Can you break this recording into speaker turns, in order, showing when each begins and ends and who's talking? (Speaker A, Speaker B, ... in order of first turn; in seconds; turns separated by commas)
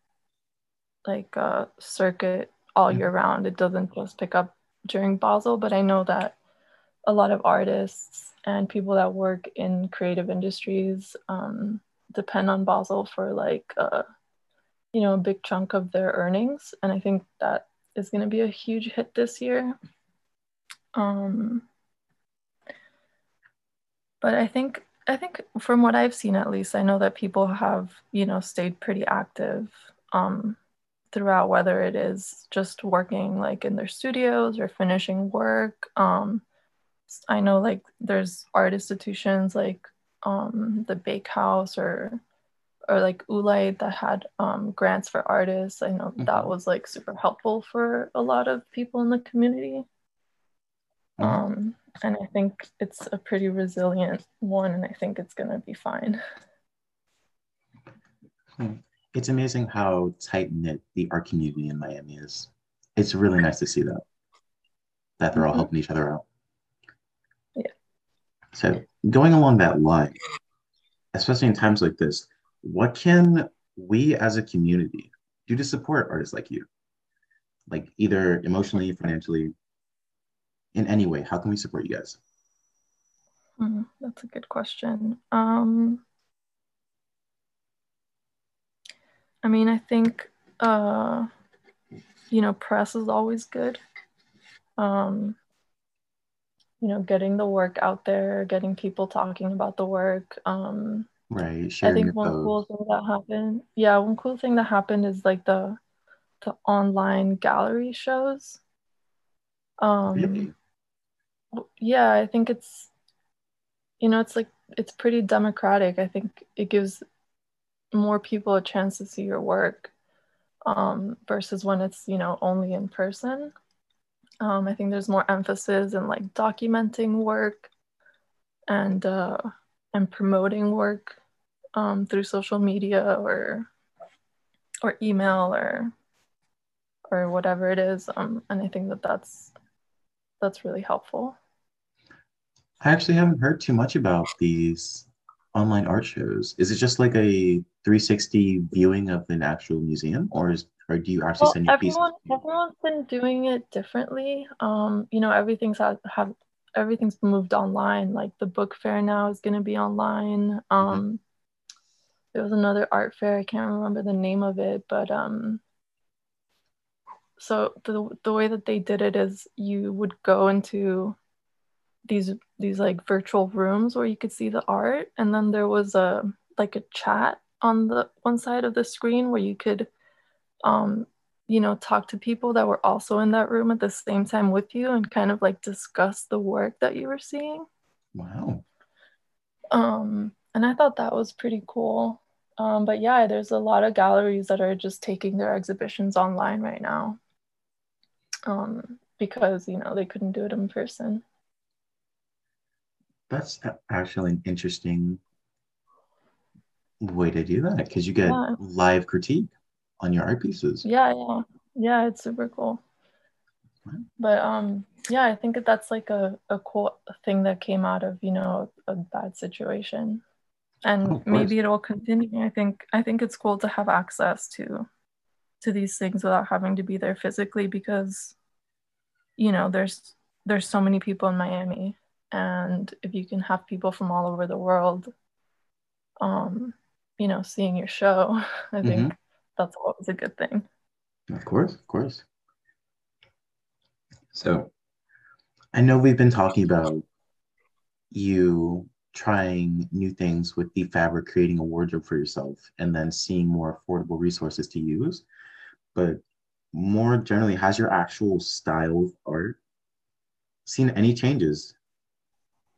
Speaker A: 1.1-6.3, Speaker A: 7.1-14.0, Speaker A: 14.9-19.7, Speaker A: 20.9-21.6, Speaker A: 24.2-30.6, Speaker A: 31.1-36.4, Speaker A: 37.1-42.2, Speaker A: 42.9-49.9, Speaker B: 46.2-46.5, Speaker B: 51.2-51.4, Speaker A: 51.2-56.2, Speaker B: 58.5-64.0, Speaker B: 65.2-66.2, Speaker A: 65.3-65.7, Speaker B: 68.5-70.2, Speaker B: 71.1-76.7, Speaker B: 77.7-79.5, Speaker B: 80.7-82.2, Speaker A: 83.6-86.0, Speaker A: 89.4-91.3, Speaker A: 92.3-93.8, Speaker A: 94.8-95.4, Speaker A: 96.8-101.1, Speaker B: 101.3-102.6, Speaker A: 101.8-105.8, Speaker A: 106.4-108.6, Speaker A: 109.8-110.5, Speaker B: 110.1-110.5, Speaker A: 111.5-112.9, Speaker A: 114.0-117.0, Speaker A: 117.9-119.9, Speaker A: 120.7-123.5, Speaker A: 124.4-127.7, Speaker A: 128.7-131.2, Speaker A: 131.8-133.7, Speaker A: 134.8-135.9, Speaker A: 137.1-139.5, Speaker A: 140.4-141.3, Speaker B: 142.8-152.1, Speaker A: 151.4-161.2, Speaker A: 162.3-165.6, Speaker A: 167.4-171.2, Speaker A: 172.1-179.9, Speaker A: 180.6-187.7, Speaker B: 188.1-188.6, Speaker A: 189.7-197.2, Speaker A: 198.5-201.2, Speaker B: 203.3-205.2, Speaker B: 207.0-210.8, Speaker A: 208.3-208.6, Speaker A: 210.8-212.8, Speaker A: 214.2-220.2, Speaker A: 220.8-224.9, Speaker B: 221.0-221.5, Speaker A: 225.6-228.3, Speaker A: 229.4-235.1, Speaker A: 236.2-240.7, Speaker B: 238.8-239.1, Speaker B: 241.3-242.2, Speaker B: 244.3-244.7, Speaker B: 245.7-247.0, Speaker B: 248.1-255.2, Speaker B: 255.9-256.2, Speaker B: 256.7-259.6, Speaker B: 260.6-261.7